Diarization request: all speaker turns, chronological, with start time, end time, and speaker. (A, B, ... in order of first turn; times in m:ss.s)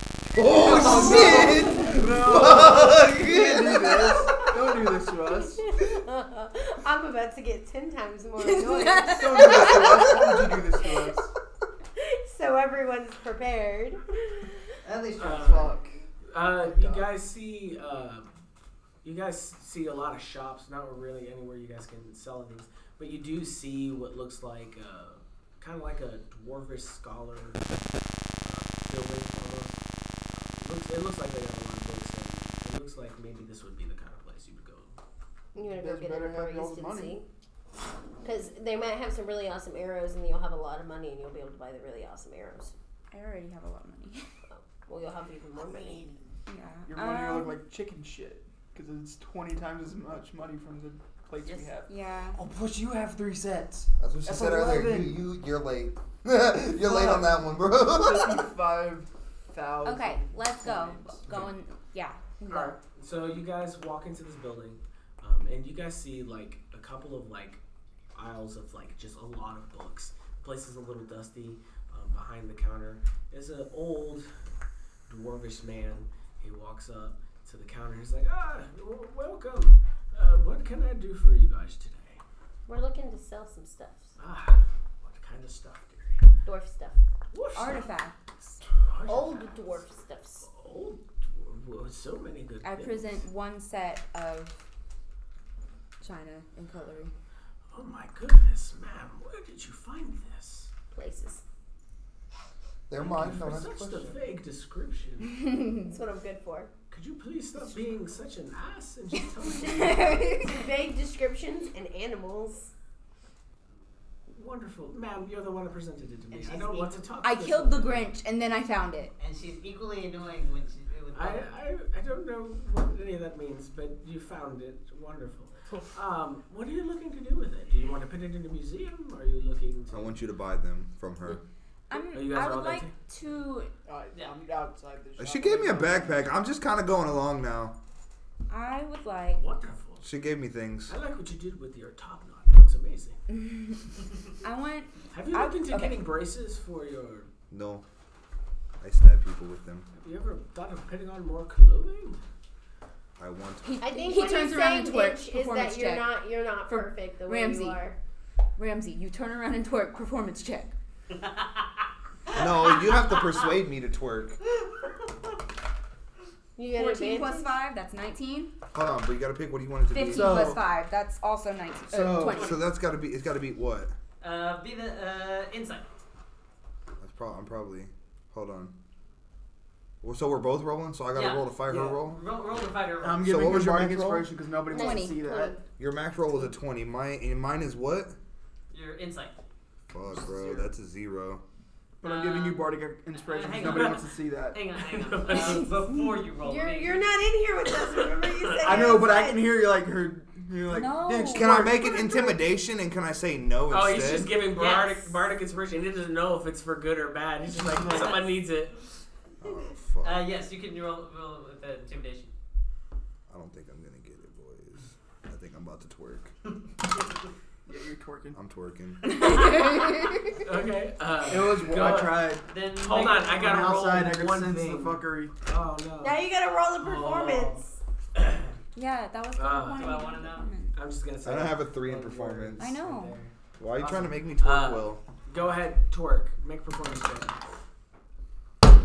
0:00.3-0:04.3 A
0:00.6-0:05.6 B
0:00.7-0:01.1 C
0:00.9-0:01.5 D
0:05.3-0:10.2 D
0:08.6-0:09.9 E
0:09.1-0:11.3 B
0:09.7-0:10.1 A
0:12.0-0:14.6 D
0:14.8-0:15.7 F
0:15.2-0:15.8 C
0:15.2-0:16.0 B
0:16.3-0:18.3 C
0:16.6-0:17.0 B
0:19.0-0:27.6 C
0:28.4-0:29.8 C
0:30.3-0:34.9 C
0:35.6-0:37.2 D
0:35.6-0:37.2 B
0:38.2-0:42.7 D
0:43.1-0:44.3 E
0:44.5-0:46.1 D
0:45.6-0:55.2 B
0:46.5-0:47.6 E
0:51.9-0:52.4 E
0:54.0-0:58.5 A
0:56.8-1:01.5 B
0:59.8-1:02.8 E
1:02.5-1:07.6 C
1:08.1-1:14.3 C
1:15.1-1:22.2 C
1:22.7-1:24.2 D
1:24.2-1:26.3 C
1:26.4-1:27.0 D
1:27.3-1:27.8 C
1:27.5-1:28.6 E
1:28.8-1:29.8 C
1:29.1-1:30.5 D
1:30.4-1:33.1 C
1:32.6-1:34.6 E
1:36.0-1:37.1 E
1:37.7-1:40.7 C
1:40.9-1:41.4 D
1:42.9-1:44.2 A
1:43.0-1:45.3 C
1:45.4-1:45.9 E
1:45.8-1:46.7 D
1:46.9-1:50.2 C
1:49.5-1:50.6 E
1:49.6-1:52.7 D
1:54.3-1:58.1 C
1:56.3-1:57.1 F
1:57.2-1:59.1 E
1:59.2-2:01.5 F
2:01.1-2:10.2 C
2:09.9-2:11.4 A
2:11.9-2:13.7 E
2:12.0-2:12.9 C
2:13.9-2:16.3 B
2:15.2-2:17.8 A
2:18.5-2:19.4 E
2:19.4-2:20.1 C
2:20.0-2:21.0 A
2:20.9-2:23.2 C
2:23.3-2:23.9 E
2:24.4-2:26.0 E
2:25.1-2:27.3 C
2:27.5-2:27.8 A
2:28.8-2:29.9 A
2:29.9-2:32.2 C
2:33.2-2:33.8 A
2:33.6-2:37.8 E
2:33.8-2:38.0 D
2:38.6-2:40.7 E
2:41.1-2:41.7 F
2:42.3-2:43.5 F
2:42.3-2:44.4 A
2:46.6-2:47.5 D
2:46.7-2:48.5 E
2:48.7-2:50.6 A
2:49.9-2:52.6 E
2:50.0-2:50.7 B
2:51.9-2:52.4 B
2:52.4-2:53.9 A
2:54.2-2:55.8 F
2:57.0-2:58.7 A
3:00.0-3:02.2 A
3:01.1-3:03.5 F
3:01.7-3:02.0 B
3:03.0-3:05.6 B
3:03.2-3:04.3 A
3:04.7-3:05.6 D
3:04.7-3:05.2 E
3:05.8-3:08.2 A
3:08.7-3:09.3 F
3:09.9-3:11.4 A
3:10.0-3:10.7 B
3:12.0-3:14.6 B
3:12.0-3:17.1 F
3:14.8-3:15.7 C
3:15.3-3:16.2 E
3:16.4-3:19.5 D
3:18.2-3:19.0 C
3:18.6-3:21.8 B
3:20.7-3:21.8 E
3:21.3-3:24.3 A
3:23.7-3:28.8 C
3:24.5-3:25.1 F
3:27.6-3:28.2 B
3:29.4-3:30.3 A
3:30.0-3:32.3 F
3:33.3-3:36.3 A
3:37.7-3:38.4 B
3:38.3-3:39.0 A
3:39.1-3:40.2 E
3:40.4-3:46.2 C
3:41.2-3:42.5 B
3:42.5-3:43.5 F
3:43.1-3:45.3 B
3:46.0-3:47.8 D
3:46.8-3:47.6 C
3:48.2-3:48.5 C
3:48.8-3:50.8 E
3:49.4-3:50.1 C
3:49.8-3:50.5 F
3:50.7-3:57.4 C
3:51.2-3:52.7 A
3:52.6-3:53.2 E
3:53.6-3:55.0 A